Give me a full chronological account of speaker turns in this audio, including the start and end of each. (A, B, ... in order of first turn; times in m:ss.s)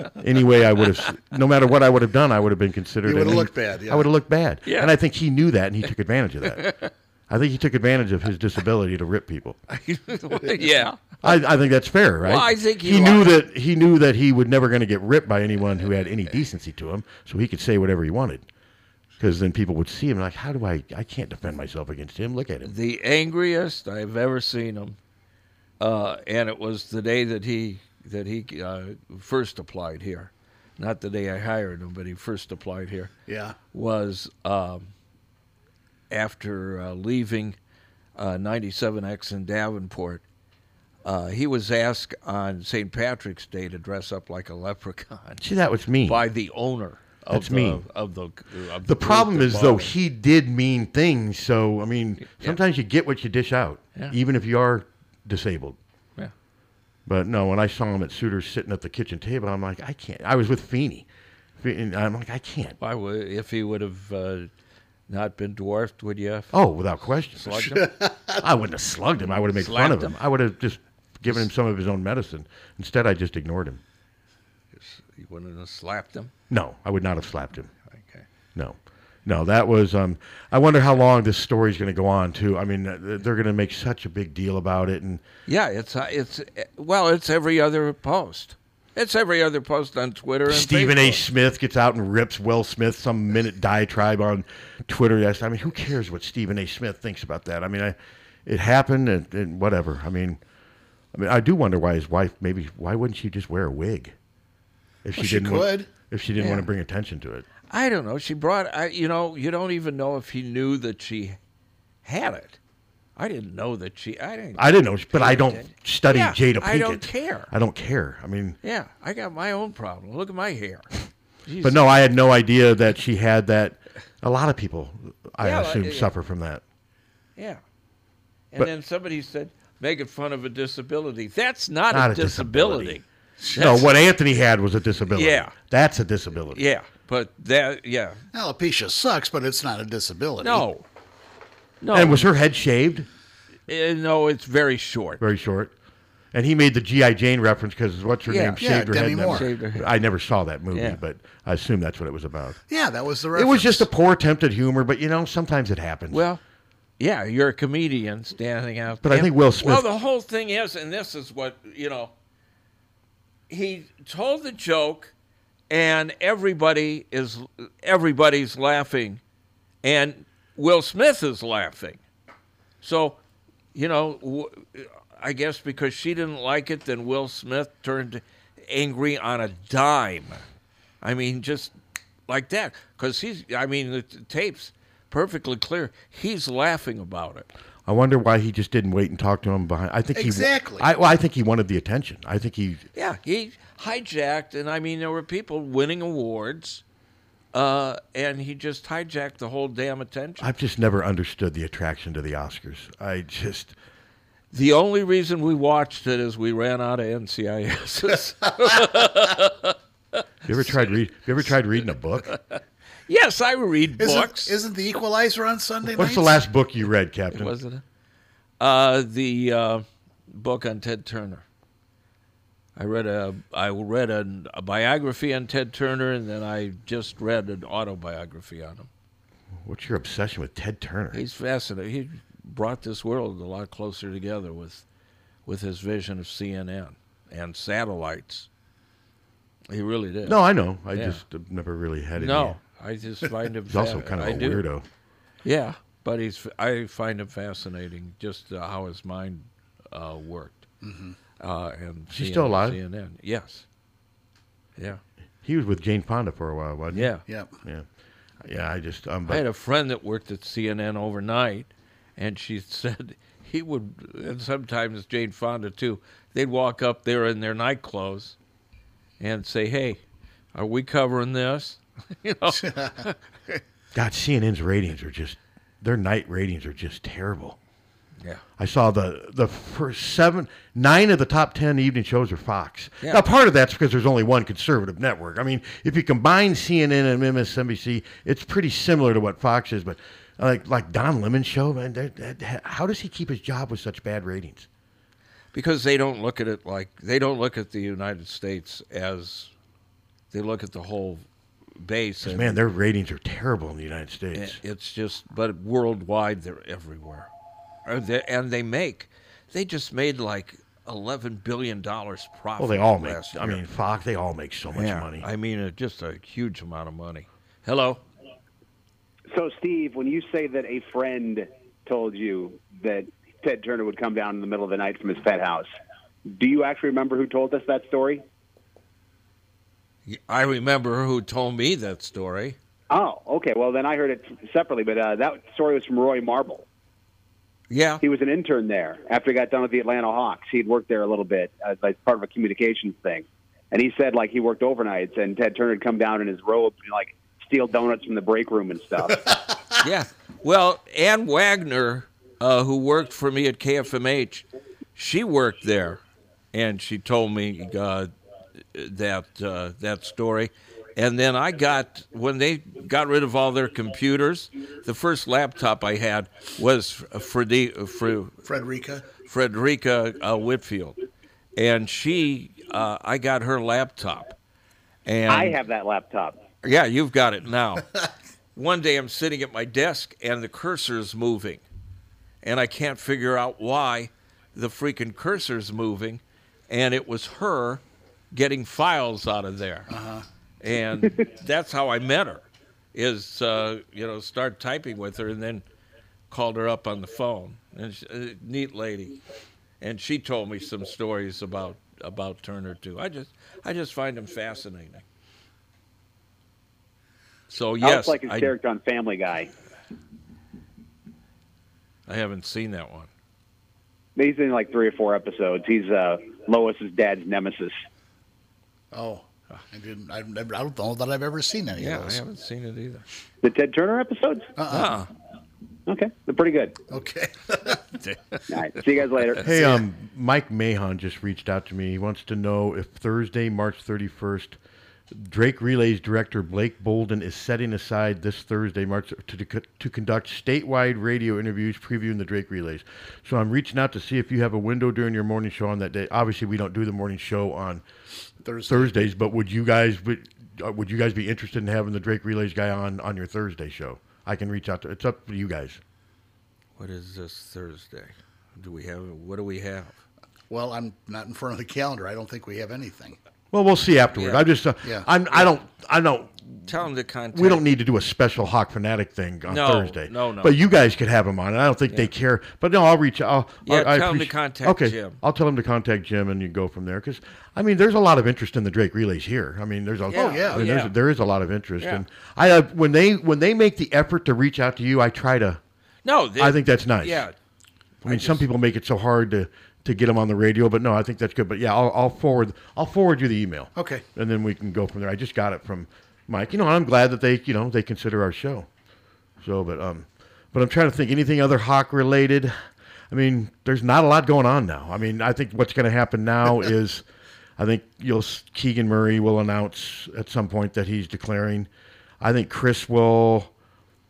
0:00.2-0:06.6 A
0:03.0-0:04.1 B
0:04.6-0:04.9 C
0:06.6-0:06.9 C
0:07.3-0:09.6 A
0:09.7-0:11.2 C
0:11.2-0:18.5 A
0:12.2-0:13.4 C
0:19.2-0:22.7 A
0:22.6-0:25.0 C
0:25.8-0:33.1 C
0:33.3-0:33.6 B
0:33.7-0:34.9 C
0:36.1-0:37.6 C
0:38.2-0:40.2 C
0:41.0-0:45.4 C
0:45.4-0:46.2 A
0:46.0-0:49.9 C
0:47.3-0:47.8 A
0:48.8-0:55.8 A
0:52.2-0:52.6 C
0:57.0-1:01.1 A
1:01.6-1:02.8 A
1:02.8-1:04.5 C
1:05.1-1:06.5 C
1:06.5-1:07.7 A
1:07.3-1:07.9 C
1:07.6-1:08.4 B
1:08.4-1:13.8 A
1:09.6-1:10.2 C
1:14.7-1:16.3 C
1:16.5-1:17.7 A
1:17.9-1:18.2 C
1:18.5-1:25.2 A
1:25.5-1:31.2 C
1:30.5-1:40.4 A
1:41.1-1:44.1 A
1:45.0-1:47.5 A
1:45.2-1:45.9 B
1:46.4-1:46.6 C
1:47.7-1:51.4 C
1:52.0-1:52.6 C
1:53.2-1:57.5 C
1:54.6-1:58.6 A
1:58.6-2:00.9 C
2:01.4-2:01.9 C
2:01.6-2:06.6 A
2:05.4-2:06.1 C
2:07.4-2:07.6 C
2:08.5-2:13.9 C
2:11.9-2:13.0 A
2:13.5-2:16.6 A
2:15.1-2:15.5 C
2:16.5-2:18.2 C
2:18.3-2:20.6 B
2:20.4-2:20.8 C
2:21.8-2:22.3 C
2:21.9-2:23.1 A
2:23.7-2:25.2 C
2:25.2-2:25.7 A
2:26.3-2:32.6 A
2:28.3-2:29.9 C
2:28.6-2:29.5 B
2:30.7-2:31.0 C
2:32.7-2:33.9 B
2:33.3-2:36.2 A
2:36.1-2:36.4 C
2:37.0-2:42.1 C
2:39.0-2:39.9 A
2:43.5-2:45.1 C
2:45.7-2:49.2 C
2:49.8-2:52.0 C
2:52.8-2:53.2 C
2:53.7-3:00.4 C
3:01.0-3:01.7 C
3:02.3-3:07.5 C
3:07.8-3:12.8 A
3:10.1-3:10.9 B
3:12.9-3:16.8 C
3:17.5-3:20.5 C
3:20.4-3:23.7 A
3:24.5-3:29.8 C
3:30.4-3:32.3 A
3:32.3-3:34.5 C
3:34.0-3:36.4 B
3:35.9-3:37.5 A
3:37.3-3:37.8 C
3:38.6-3:41.4 C
3:42.8-3:48.9 C
3:49.6-3:51.2 A
3:51.1-3:54.8 C
3:55.4-3:58.5 C
3:59.7-4:00.4 C
4:00.2-4:02.6 A
4:00.9-4:01.2 C
4:02.2-4:04.6 C
4:03.7-4:04.8 A
4:05.4-4:10.7 C
4:10.8-4:11.2 B
4:11.4-4:13.6 C
4:12.1-4:12.8 A
4:15.4-4:17.8 A
4:16.9-4:17.2 C
4:17.3-4:17.5 B
4:18.4-4:19.4 A
4:19.3-4:28.4 C
4:29.2-4:30.0 C
4:30.5-4:33.6 C
4:32.6-4:32.9 B
4:33.9-4:37.6 A
4:38.6-4:54.7 A
4:55.5-4:59.5 C
5:00.3-5:01.2 C
5:01.8-5:02.6 C
5:02.2-5:04.6 A
5:04.3-5:07.3 C
5:07.8-5:13.6 C
5:12.6-5:15.3 A
5:14.7-5:18.0 C
5:19.3-5:25.7 D
5:26.3-5:28.2 D
5:30.0-5:32.6 C
5:32.9-5:36.6 D
5:37.7-5:38.0 C
5:38.0-5:49.3 D
5:49.8-5:56.0 C
5:56.5-5:58.1 C
5:58.7-6:08.4 C
6:08.4-6:09.1 B
6:09.2-6:11.0 C
6:11.6-6:14.3 C
6:15.0-6:15.6 C
6:15.3-6:16.4 D
6:16.6-6:17.8 C
6:18.6-6:21.6 C
6:22.4-6:29.9 C
6:29.9-6:30.2 B
6:30.6-6:35.6 C
6:36.3-6:39.2 C
6:39.8-6:45.0 C
6:47.5-6:48.5 C
6:47.8-6:49.5 D
6:52.1-6:53.1 C
6:54.2-6:57.8 D
6:58.9-7:02.2 B
7:01.8-7:03.0 C
7:03.4-7:04.5 D
7:04.6-7:04.9 B
7:04.7-7:05.1 C
7:05.9-7:06.8 D
7:06.9-7:07.8 B
7:08.0-7:08.4 C
7:08.5-7:09.5 D
7:09.4-7:09.8 C
7:09.4-7:14.6 A
7:15.1-7:27.8 A
7:28.4-7:29.0 B
7:28.7-7:35.8 A
7:36.8-7:40.0 C
7:40.5-7:43.2 B
7:43.5-7:46.7 A
7:44.1-7:44.5 C
7:46.6-7:47.6 C
7:47.3-8:05.6 A
7:49.5-7:50.6 C
7:53.6-7:55.2 C
8:00.1-8:00.9 C
8:00.1-8:00.6 B
8:06.0-8:07.3 C
8:06.4-8:07.2 A
8:08.0-8:18.7 A
8:08.0-8:08.4 C
8:13.7-8:14.0 B
8:19.4-8:22.5 A
8:23.1-8:27.0 A
8:27.6-8:31.7 A
8:32.2-8:33.5 A